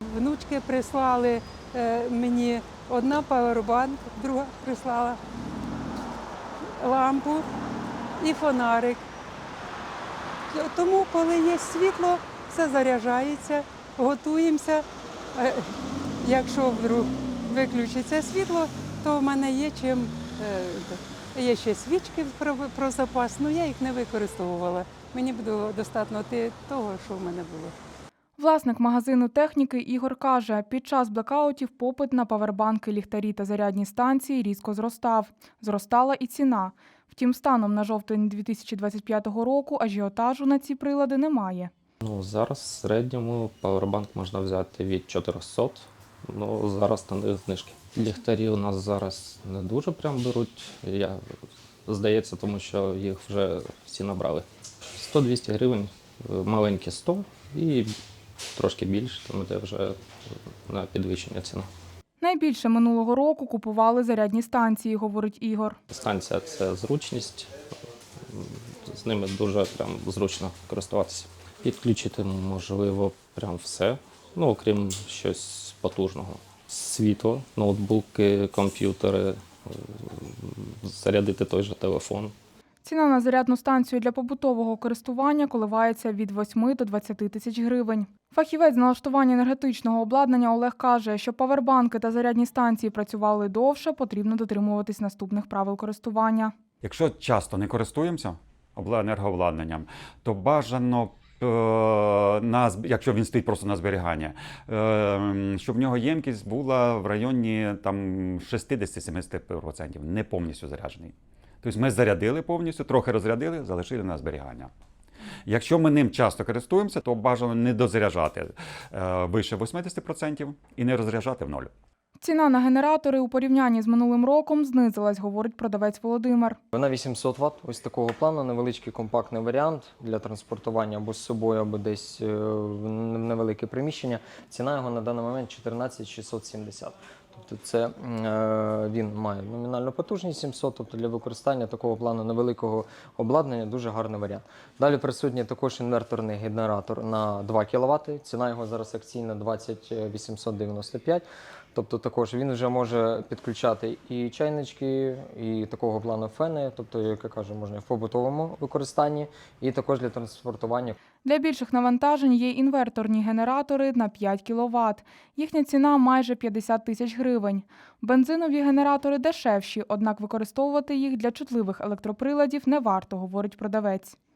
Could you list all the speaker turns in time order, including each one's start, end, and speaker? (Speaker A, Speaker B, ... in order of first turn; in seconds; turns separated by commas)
Speaker A: 0.1-5.2, Speaker A: 6.8-7.5, Speaker A: 8.2-9.0, Speaker A: 10.5-27.7, Speaker B: 28.4-41.7, Speaker C: 42.0-51.2, Speaker C: 51.9-54.4, Speaker C: 55.0-57.9, Speaker C: 58.5-60.0, Speaker C: 60.7-61.7, Speaker B: 62.2-65.8, Speaker C: 65.9-67.5, Speaker C: 68.3-82.3, Speaker B: 82.8-96.5, Speaker D: 96.8-114.7, Speaker D: 115.5-121.7, Speaker B: 122.2-126.6, Speaker E: 126.7-160.9, Speaker B: 161.2-174.2